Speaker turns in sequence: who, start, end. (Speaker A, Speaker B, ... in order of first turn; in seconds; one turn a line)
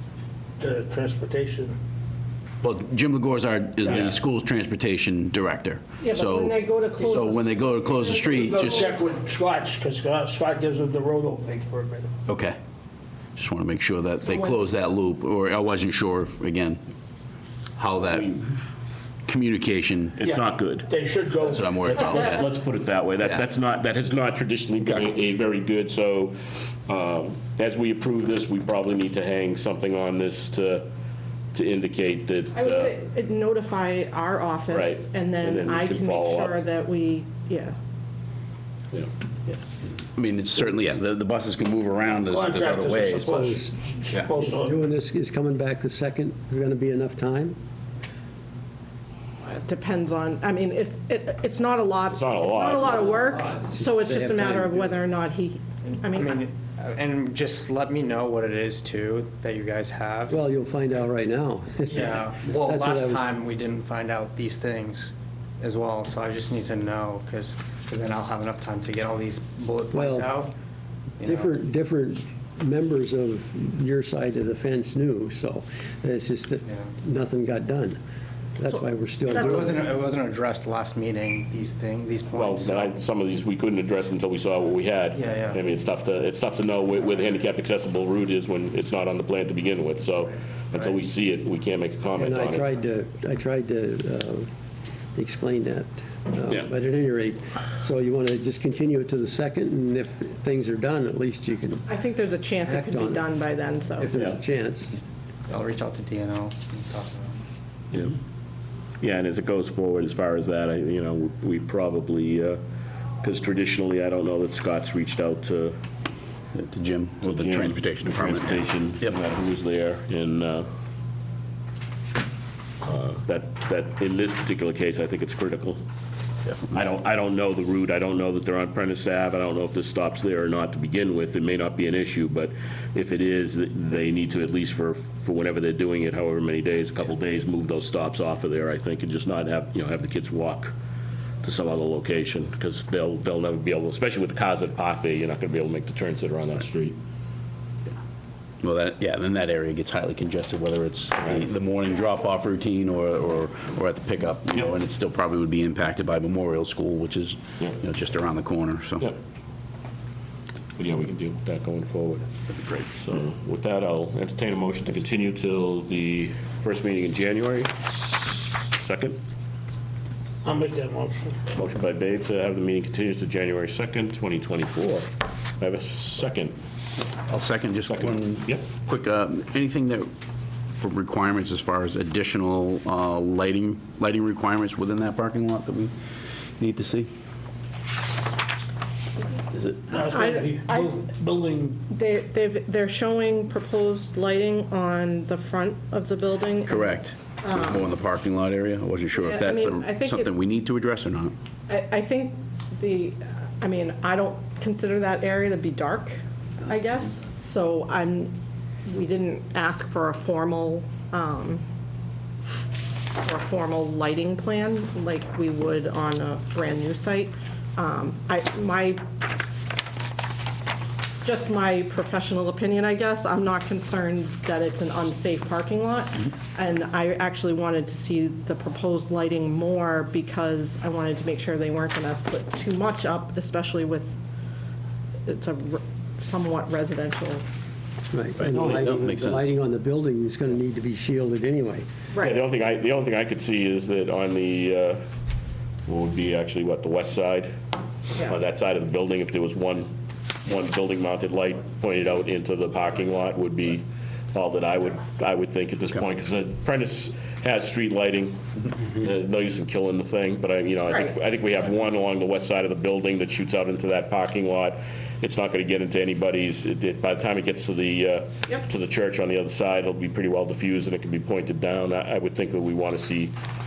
Speaker A: 0.6-1.8
Speaker B: 2.6-8.8
Speaker C: 6.0-8.9
Speaker A: 8.3-12.1
Speaker B: 12.3-12.6
Speaker B: 13.3-16.8
Speaker C: 14.2-14.6
Speaker B: 17.8-18.4
Speaker B: 19.2-20.2
Speaker D: 20.2-20.9
Speaker A: 20.2-22.3
Speaker B: 21.4-22.5
Speaker D: 21.9-26.3
Speaker D: 26.9-30.9
Speaker D: 31.5-32.9
Speaker C: 32.5-37.7
Speaker D: 34.7-36.6
Speaker B: 40.1-43.5
Speaker A: 42.2-44.8
Speaker E: 43.3-43.7
Speaker E: 44.4-47.5
Speaker C: 49.4-56.4
Speaker D: 52.1-53.2
Speaker E: 53.6-55.0
Speaker F: 55.8-60.4
Speaker E: 60.3-63.3
Speaker F: 61.9-70.5
Speaker E: 69.9-70.3
Speaker F: 71.2-71.5
Speaker E: 71.2-78.0
Speaker F: 76.7-76.9
Speaker E: 78.6-79.9
Speaker F: 79.3-83.0
Speaker D: 82.3-92.7
Speaker F: 85.1-85.6
Speaker E: 92.2-94.5
Speaker E: 95.1-101.9
Speaker C: 101.9-104.1
Speaker E: 102.6-103.3
Speaker E: 104.0-104.9
Speaker F: 105.5-107.4
Speaker D: 109.0-112.6
Speaker D: 113.2-115.8
Speaker B: 116.5-119.2
Speaker D: 117.2-120.7
Speaker D: 122.8-125.8
Speaker D: 126.7-140.7
Speaker D: 141.4-147.0
Speaker B: 148.6-159.1
Speaker D: 160.8-162.3
Speaker B: 162.5-162.8
Speaker D: 162.9-169.2
Speaker A: 170.4-171.4
Speaker D: 171.5-176.5
Speaker B: 177.3-180.1
Speaker D: 177.8-178.6
Speaker B: 180.7-185.9
Speaker B: 186.6-187.1
Speaker B: 189.5-189.8
Speaker A: 189.9-191.8
Speaker C: 190.0-191.0
Speaker C: 191.9-197.9
Speaker B: 196.7-201.3
Speaker C: 199.1-200.3
Speaker C: 201.7-208.3
Speaker C: 208.8-211.6
Speaker C: 213.2-219.0
Speaker C: 221.2-234.1
Speaker C: 235.2-237.4
Speaker E: 238.1-241.8
Speaker B: 238.5-239.5
Speaker D: 242.2-245.0
Speaker D: 245.9-247.5
Speaker D: 248.2-249.9
Speaker D: 250.4-273.3